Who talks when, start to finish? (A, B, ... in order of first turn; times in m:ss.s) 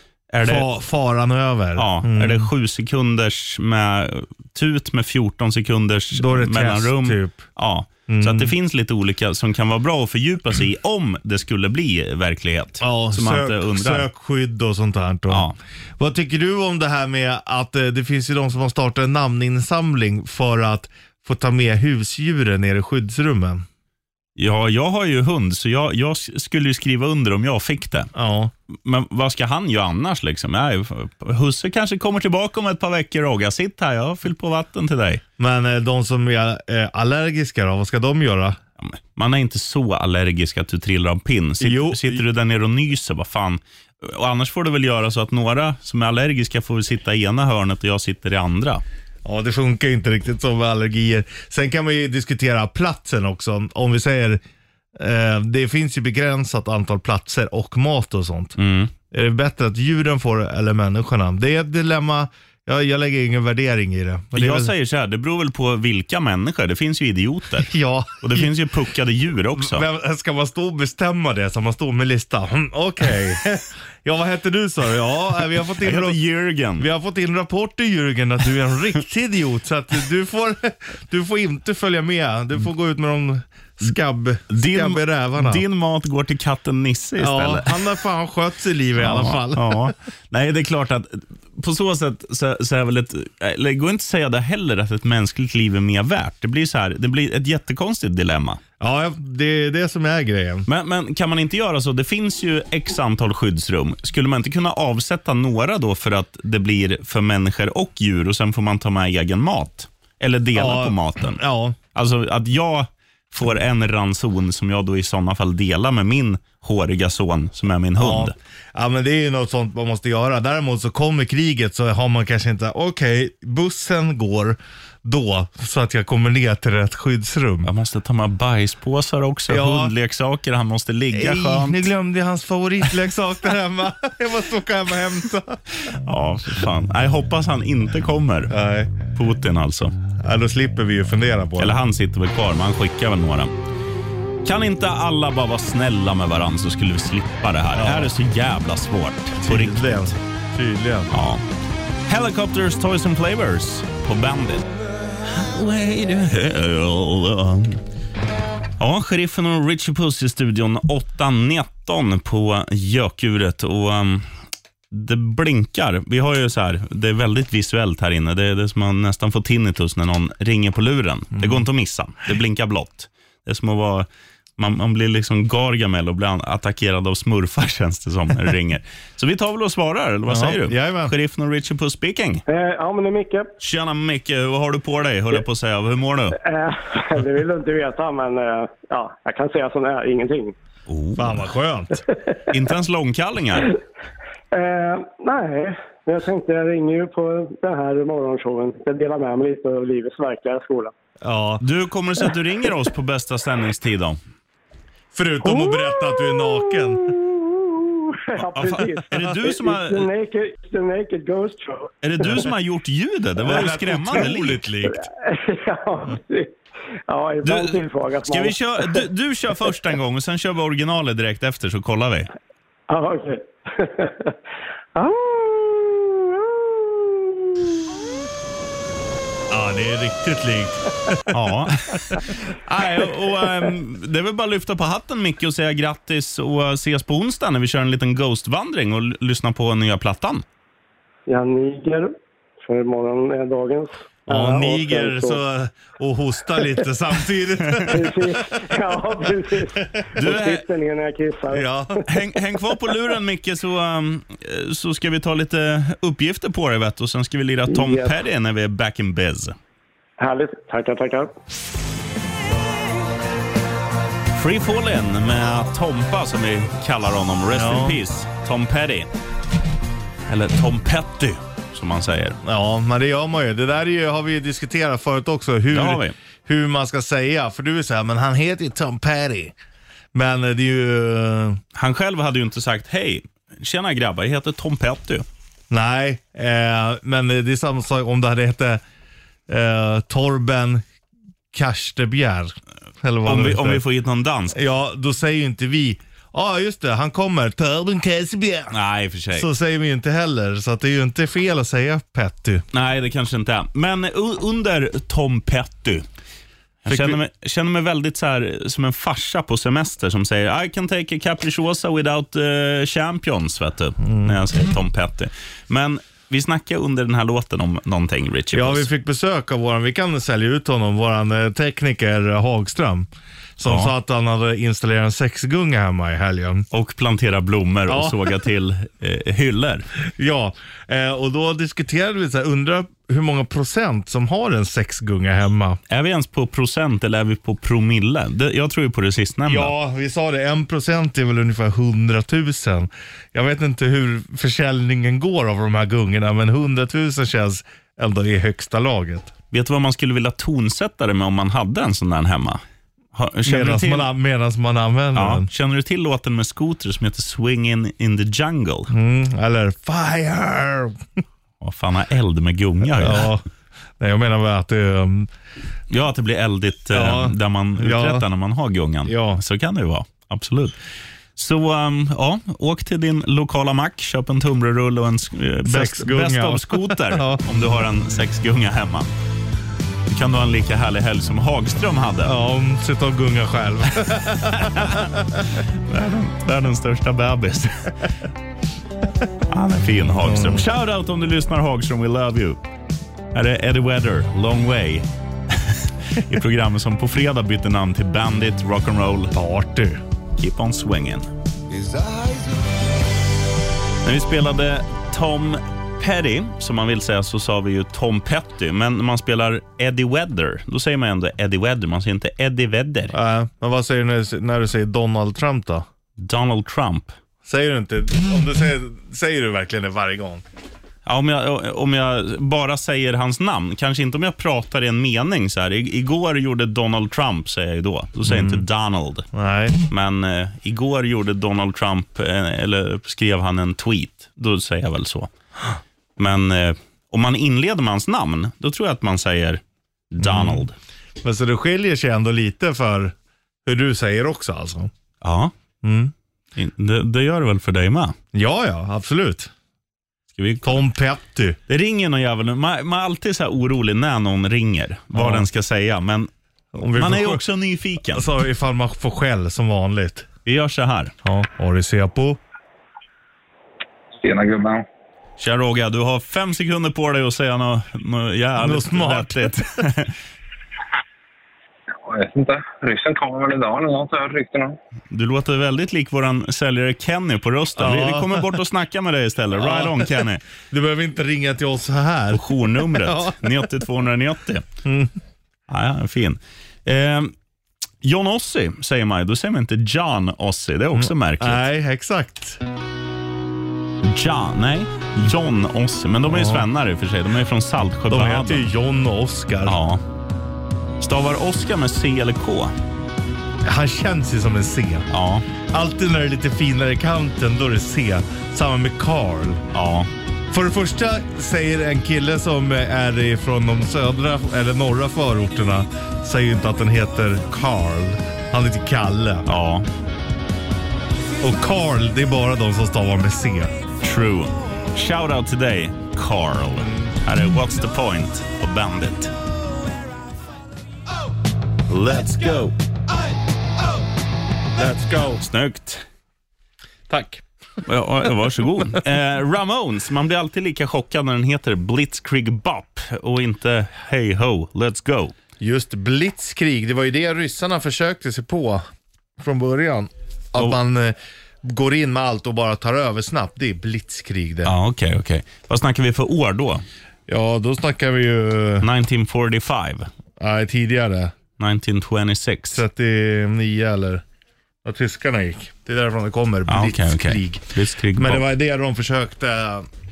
0:00.3-0:00.7 A
0:00.4-0:02.5 B
0:01.8-0:14.1 A
0:06.1-0:07.4 B
0:08.1-0:08.5 B
0:12.8-0:23.6 B
0:15.3-0:15.6 A
0:24.4-0:28.1 A
0:28.1-0:28.5 B
0:28.7-0:35.2 A
0:35.4-0:38.6 B
0:38.8-0:48.8 A
0:41.6-0:42.2 B
0:49.2-0:54.4 B
0:55.0-0:58.6 B
0:58.6-0:58.9 A
0:59.1-1:04.7 B
1:04.4-1:09.8 A
1:07.6-1:08.5 B
1:09.6-1:16.2 B
1:15.8-1:16.9 A
1:16.8-1:25.6 B
1:24.5-1:27.8 A
1:27.2-1:29.9 B
1:29.0-1:38.6 A
1:38.8-1:40.7 B
1:40.7-1:51.4 A
1:50.6-1:51.8 B
1:51.9-1:58.3 A
1:58.0-2:07.7 B
2:07.6-2:11.9 A
2:09.5-2:09.9 B
2:11.1-2:15.6 B
2:16.0-2:18.5 A
2:18.5-2:18.9 B
2:19.1-2:19.9 A
2:20.2-2:21.8 B
2:21.6-2:23.5 A
2:24.4-2:30.0 A
2:27.7-2:28.1 B
2:29.4-2:31.1 B
2:31.1-2:31.4 A
2:32.1-2:34.7 A
2:35.2-2:37.8 A
2:38.8-2:44.3 A
2:44.9-2:54.1 A
2:51.4-2:51.6 B
2:54.6-3:02.4 A
3:00.3-3:01.1 B
3:02.5-3:03.5 C
3:03.6-3:06.4 A
3:06.4-3:10.6 C
3:10.9-3:11.5 A
3:11.2-3:12.0 B
3:12.5-3:13.7 A
3:14.5-3:20.9 C
3:21.2-3:21.6 B
3:21.6-3:24.2 A
3:25.1-3:27.2 B
3:25.4-3:32.4 C
3:28.4-3:30.1 A
3:32.0-3:34.6 A
3:33.4-3:35.0 B
3:34.9-3:36.6 C
3:37.1-3:39.0 C
3:37.4-3:42.3 A
3:42.9-3:44.3 C
3:45.0-3:47.6 C
3:49.5-3:51.3 B
3:51.3-4:00.4 A
4:01.3-4:05.4 C
4:04.3-4:09.2 B
4:07.6-4:07.9 A
4:07.9-4:12.0 C
4:10.1-4:10.7 A
4:11.5-4:12.0 B
4:12.0-4:19.6 A
4:17.7-4:18.2 C
4:20.2-4:21.3 C
4:24.3-4:29.1 A
4:27.5-4:28.0 B
4:30.3-4:32.4 A
4:32.4-4:39.6 B
4:35.7-4:36.1 A
4:40.1-4:41.6 B
4:41.7-4:45.2 A
4:45.7-4:48.8 B
4:49.5-4:50.8 B
4:51.5-4:53.8 B
4:53.2-4:54.6 A
4:54.5-4:58.7 B
4:58.7-4:59.5 A
4:59.3-5:02.6 B
5:02.7-5:06.0 A
5:06.8-5:18.9 A
5:06.9-5:07.2 B
5:14.0-5:14.4 B
5:18.5-5:26.7 B
5:23.7-5:23.9 A
5:26.7-5:29.9 A
5:27.9-5:28.2 B
5:30.2-5:35.8 B
5:35.9-5:39.7 A
5:39.4-5:49.3 B
5:49.5-5:52.6 A
5:53.1-5:54.1 A
5:53.4-5:55.5 B
5:55.1-5:58.9 A
5:58.9-6:01.0 B
6:01.6-6:03.3 A
6:02.9-6:03.4 B
6:04.0-6:05.3 B
6:05.9-6:10.8 A
6:06.9-6:08.3 B
6:09.0-6:09.4 B
6:11.4-6:19.1 A
6:15.6-6:17.4 B
6:20.1-6:22.3 A
6:22.2-6:25.4 B
6:24.5-6:25.1 A
6:25.9-6:28.0 A
6:29.5-6:32.6 A
6:30.2-6:30.7 B
6:33.3-6:39.3 A
6:39.3-6:40.0 B
6:40.4-6:41.3 A
6:44.0-6:53.1 A
6:53.1-6:55.9 B
6:56.2-6:57.1 A
6:57.4-7:00.4 B
7:01.0-7:09.3 A
7:08.3-7:08.7 B
7:09.3-7:09.8 B
7:09.9-7:15.3 A
7:16.2-7:20.8 A
7:20.2-7:20.6 B
7:21.2-7:23.1 B
7:23.6-7:24.9 B
7:25.2-7:25.5 A
7:25.8-7:26.1 B
7:26.6-7:28.2 A
7:28.3-7:29.5 B
7:30.3-7:30.8 A
7:30.6-7:31.6 B
7:31.7-7:36.3 A
7:35.1-7:35.5 B
7:36.7-7:37.4 B
7:37.0-7:38.3 A
7:38.0-7:40.3 B
7:40.4-7:41.1 A
7:41.2-7:42.4 B
7:44.2-7:44.9 D
7:45.4-7:50.1 A
7:48.6-7:49.7 B
7:52.0-7:54.8 D
7:55.1-8:00.4 A
7:57.8-7:58.6 B
7:59.5-8:03.6 B
8:02.3-8:04.6 A
8:04.8-8:05.1 B
8:05.7-8:07.3 A
8:08.0-8:11.6 A
8:11.0-8:12.6 B
8:14.0-8:18.7 A
8:16.3-8:16.7 B
8:18.1-8:19.8 B
8:19.6-8:20.0 A
8:21.0-8:22.7 A
8:23.6-8:25.1 B
8:25.1-8:25.4 A
8:25.6-8:29.6 B
8:29.7-8:30.1 A
8:30.5-8:39.5 B
8:39.4-8:39.9 A
8:41.4-8:43.8 B
8:44.0-8:49.3 A
8:46.8-8:47.1 B
8:51.9-8:52.7 A
8:54.8-8:55.4 B
8:55.3-8:56.0 A
8:57.1-8:57.4 B
8:57.8-9:05.3 A
9:05.6-9:08.8 B
9:09.4-9:14.7 B
9:14.6-9:16.8 A
9:17.3-9:18.9 B
9:18.8-9:20.1 A
9:20.4-9:21.3 B
9:21.6-9:22.8 A
9:22.7-9:24.2 B
9:24.8-9:29.9 B
9:26.7-9:28.4 A